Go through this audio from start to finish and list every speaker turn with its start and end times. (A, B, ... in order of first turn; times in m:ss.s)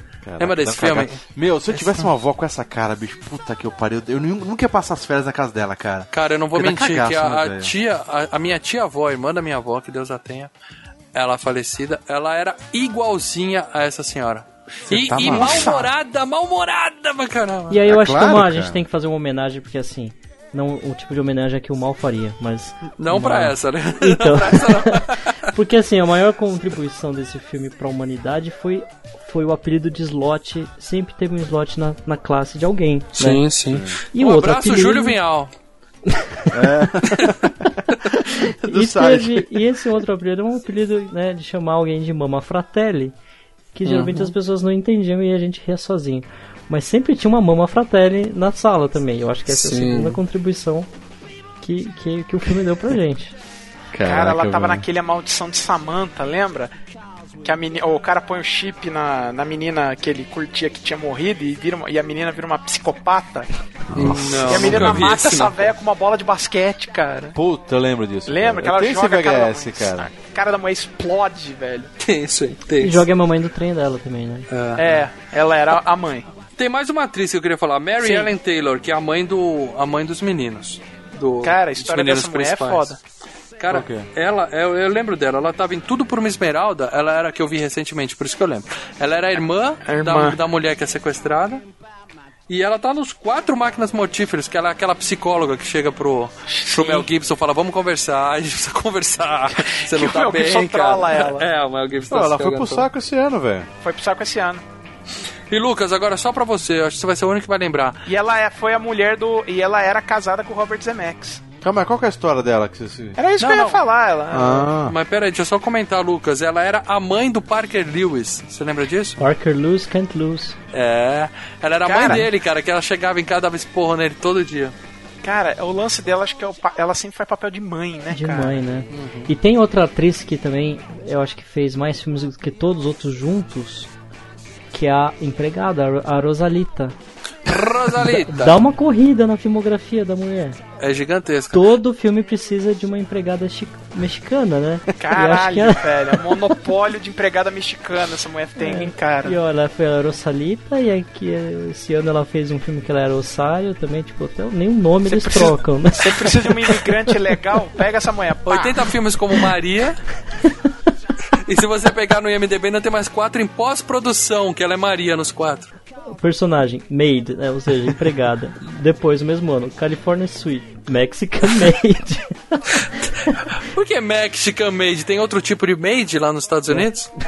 0:00.2-0:07.7 A
0:00.4-0:01.2 B
0:06.1-0:10.5 B
0:11.1-0:17.8 B
0:14.9-0:15.7 A
0:15.2-0:15.9 C
0:17.7-0:33.5 D
0:17.8-0:18.8 A
0:23.0-0:25.4 B
0:33.2-0:35.5 B
0:33.7-0:34.0 A
0:34.1-0:35.2 D
0:36.5-0:37.5 A
0:38.6-0:39.4 A
0:38.6-0:43.1 D
0:43.7-0:50.9 D
0:43.8-0:44.3 B
0:49.5-0:50.2 B
0:51.6-0:53.3 D
0:53.9-0:54.9 A
0:54.0-0:56.7 C
0:57.4-1:03.6 C
1:03.9-1:05.0 A
1:03.9-1:05.7 B
1:04.4-1:07.4 C
1:07.3-1:10.1 A
1:08.2-1:11.9 C
1:12.0-1:13.0 B
1:12.8-1:14.4 D
1:14.5-1:14.8 B
1:14.8-1:16.3 C
1:16.6-1:22.9 B
1:18.0-1:18.3 C
1:21.4-1:23.0 C
1:23.6-1:31.6 B
1:23.7-1:24.1 A
1:29.8-1:30.4 C
1:32.5-1:42.8 B
1:36.5-1:37.1 C
1:39.9-1:41.5 C
1:42.1-1:43.7 A
1:43.8-1:44.6 C
1:45.5-1:48.0 B
1:48.1-1:51.4 C
1:51.6-1:53.2 A
1:53.2-1:54.7 C
1:53.4-1:53.8 B
1:54.3-1:54.9 A
1:54.8-1:59.2 B
1:59.2-2:00.6 D
2:00.7-2:04.7 B
2:01.8-2:02.2 C
2:05.2-2:08.6 C
2:08.1-2:13.9 D
2:08.9-2:09.3 B
2:14.7-2:16.9 D
2:17.5-2:18.6 B
2:18.2-2:20.6 D
2:20.8-2:21.7 B
2:21.5-2:25.9 D
2:25.0-2:29.4 C
2:28.6-2:36.3 D
2:35.0-2:38.9 C
2:38.4-2:40.0 B
2:41.4-2:45.7 B
2:46.1-2:52.6 D
2:53.6-2:57.1 B